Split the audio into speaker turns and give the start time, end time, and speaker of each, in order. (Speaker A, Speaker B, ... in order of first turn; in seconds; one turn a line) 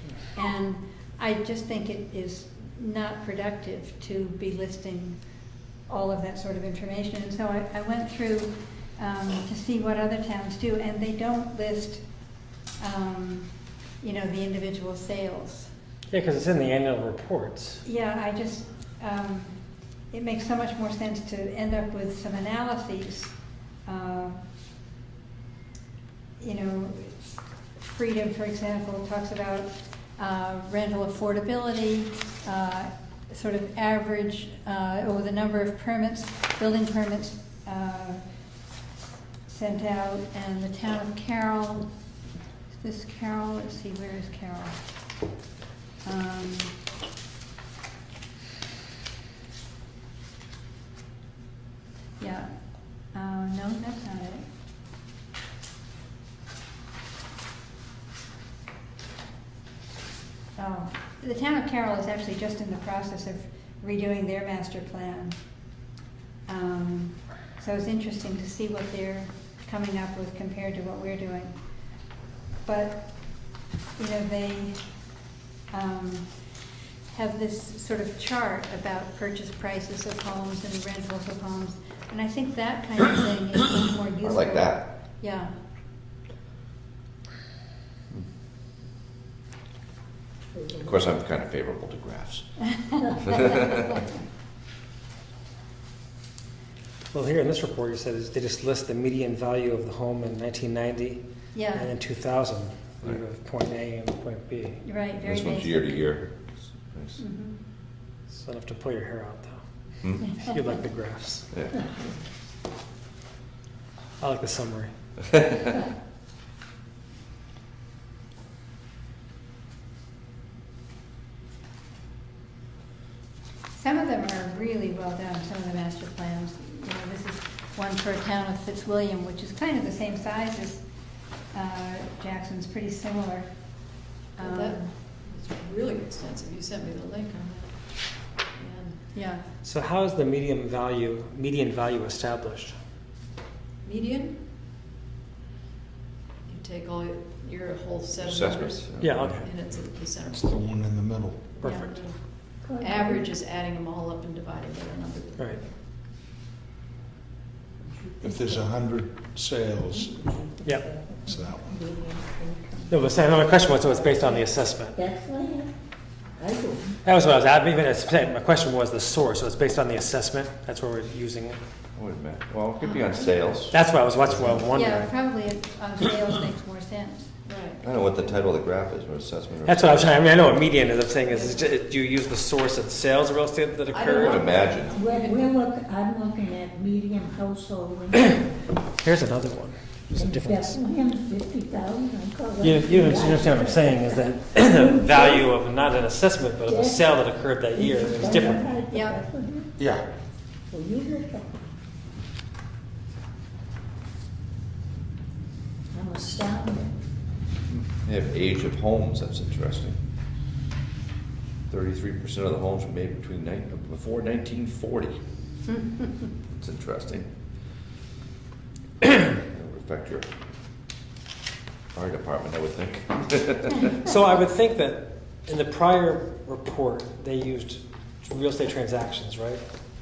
Speaker A: 0.3-5.2
Speaker A: 5.9-12.0
Speaker A: 12.8-15.7
Speaker B: 16.1-17.8
Speaker A: 17.9-19.6
Speaker A: 20.1-23.4
Speaker A: 23.9-24.4
Speaker A: 26.4-38.2
Speaker A: 39.5-41.9
Speaker A: 42.7-44.8
Speaker A: 46.0-46.8
Speaker A: 52.2-52.5
Speaker A: 53.1-54.5
Speaker A: 60.6-65.4
Speaker A: 66.5-71.6
Speaker A: 72.7-73.1
Speaker A: 74.0-74.8
Speaker A: 75.7-76.3
Speaker A: 77.1-85.5
Speaker C: 84.2-84.8
Speaker D: 90.6-90.9
Speaker C: 90.8-94.0
Speaker B: 97.1-104.8
Speaker A: 101.5-101.9
Speaker A: 104.8-106.0
Speaker C: 105.2-107.2
Speaker A: 107.2-107.5
Speaker B: 108.3-109.6
Speaker C: 110.0-110.3
Speaker B: 110.2-111.5
Speaker B: 114.2-114.9
Speaker A: 123.7-130.8
Speaker A: 131.5-133.5
Speaker A: 134.4-134.9
Speaker E: 134.4-139.0
Speaker A: 139.1-139.4
Speaker B: 139.6-142.8
Speaker E: 143.8-144.4
Speaker E: 146.5-150.8
Speaker C: 148.2-149.5
Speaker B: 149.0-149.4
Speaker F: 150.3-151.7
Speaker B: 151.6-152.0
Speaker E: 151.6-152.2
Speaker D: 152.6-153.4
Speaker E: 152.8-155.7
Speaker D: 157.8-158.7
Speaker F: 158.2-160.2
Speaker D: 159.9-165.7
Speaker B: 160.6-160.9
Speaker F: 161.3-161.8
Speaker B: 162.9-165.0
Speaker D: 166.4-167.0
Speaker B: 167.0-171.6
Speaker C: 171.9-174.7
Speaker D: 172.9-173.3
Speaker B: 173.7-175.1
Speaker A: 174.7-177.4
Speaker E: 177.4-177.8
Speaker C: 177.8-180.2
Speaker B: 179.7-184.4
Speaker E: 183.9-185.6
Speaker C: 184.2-185.0
Speaker D: 184.9-188.7
Speaker B: 188.9-190.8
Speaker D: 190.1-195.5
Speaker B: 192.6-198.6
Speaker D: 196.7-197.0
Speaker D: 197.7-199.8
Speaker A: 198.9-199.2
Speaker F: 199.8-200.1
Speaker D: 200.7-201.7
Speaker D: 205.9-207.0
Speaker C: 208.0-210.0
Speaker C: 211.7-215.2
Speaker C: 216.6-217.3
Speaker C: 219.1-220.3
Speaker C: 221.9-223.9
Speaker B: 224.0-229.6